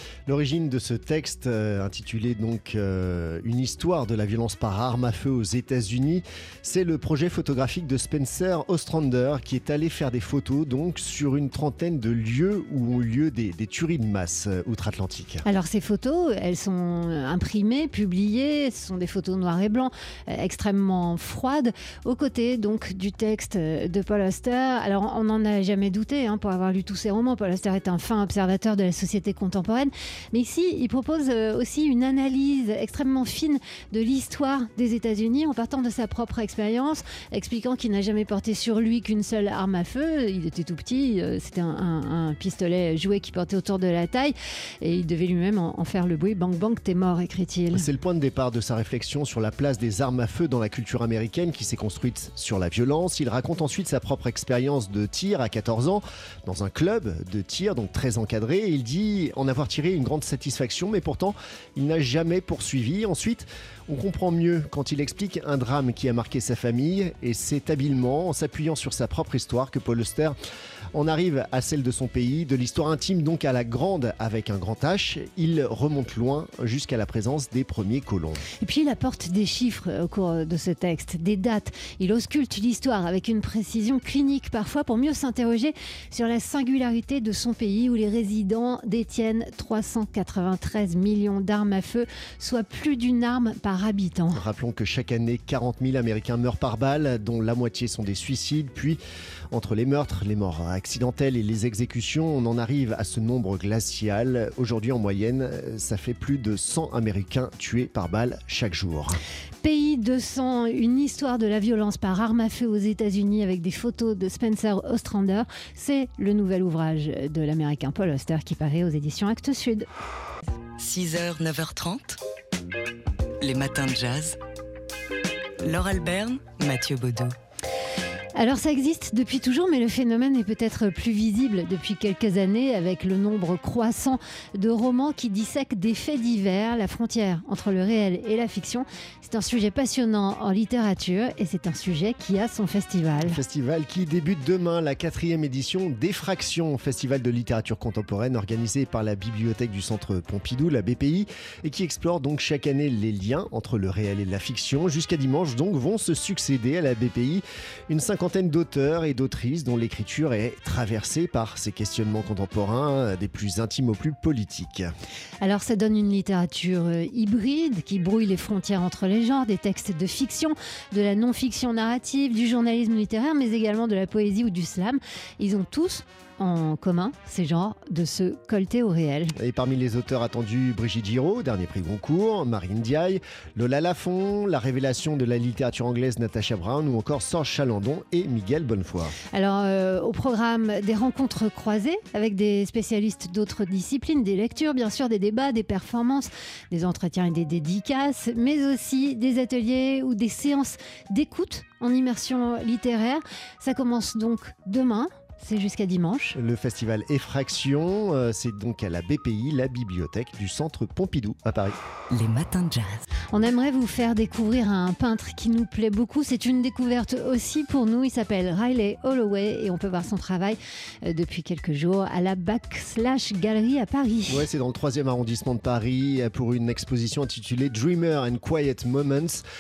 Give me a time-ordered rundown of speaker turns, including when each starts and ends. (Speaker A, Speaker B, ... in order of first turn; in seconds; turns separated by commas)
Speaker A: 0.3-15.4, Speaker B: 15.4-47.9, Speaker A: 47.7-70.3, Speaker A: 70.9-78.5, Speaker B: 78.6-94.5, Speaker A: 94.3-99.0, Speaker A: 99.5-109.2, Speaker B: 109.6-119.9, Speaker C: 120.8-122.2, Speaker C: 123.4-124.4, Speaker C: 125.6-127.3, Speaker B: 128.3-143.4, Speaker A: 143.2-164.9, Speaker B: 165.4-179.3, Speaker A: 179.4-189.2, Speaker B: 189.3-206.4, Speaker A: 206.4-211.8, Speaker C: 212.1-213.1, Speaker B: 213.3-224.5, Speaker A: 224.3-229.4